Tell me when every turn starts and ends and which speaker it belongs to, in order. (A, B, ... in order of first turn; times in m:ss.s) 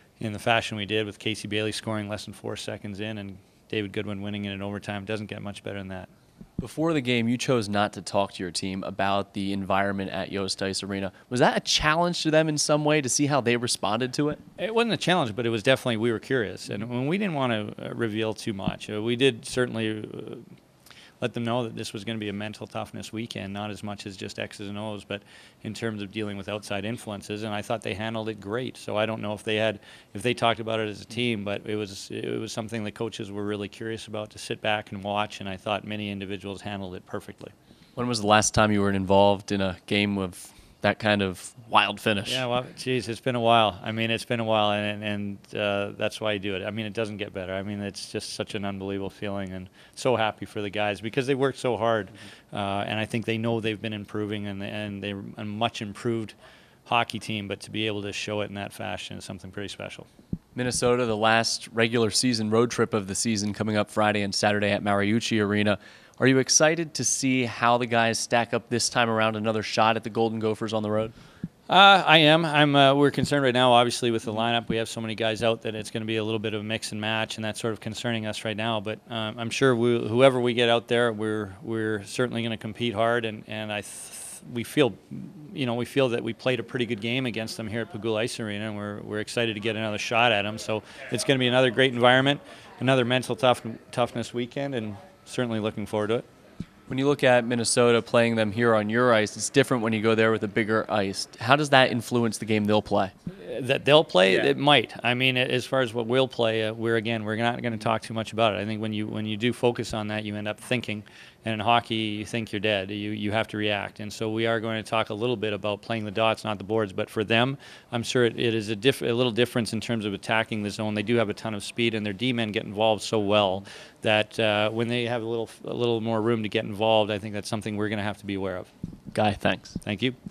0:00.2-0:06.1 A
0:06.6-0:14.4 B
0:14.6-0:20.4 A
0:21.2-0:37.5 A
0:38.0-0:42.4 B
0:42.2-0:56.3 A
0:56.9-1:00.1 A
1:00.6-1:11.1 B
1:11.7-1:36.2 A
1:36.9-1:43.1 B
1:43.4-2:08.7 A
2:09.1-2:09.8 B
2:09.8-2:10.2 A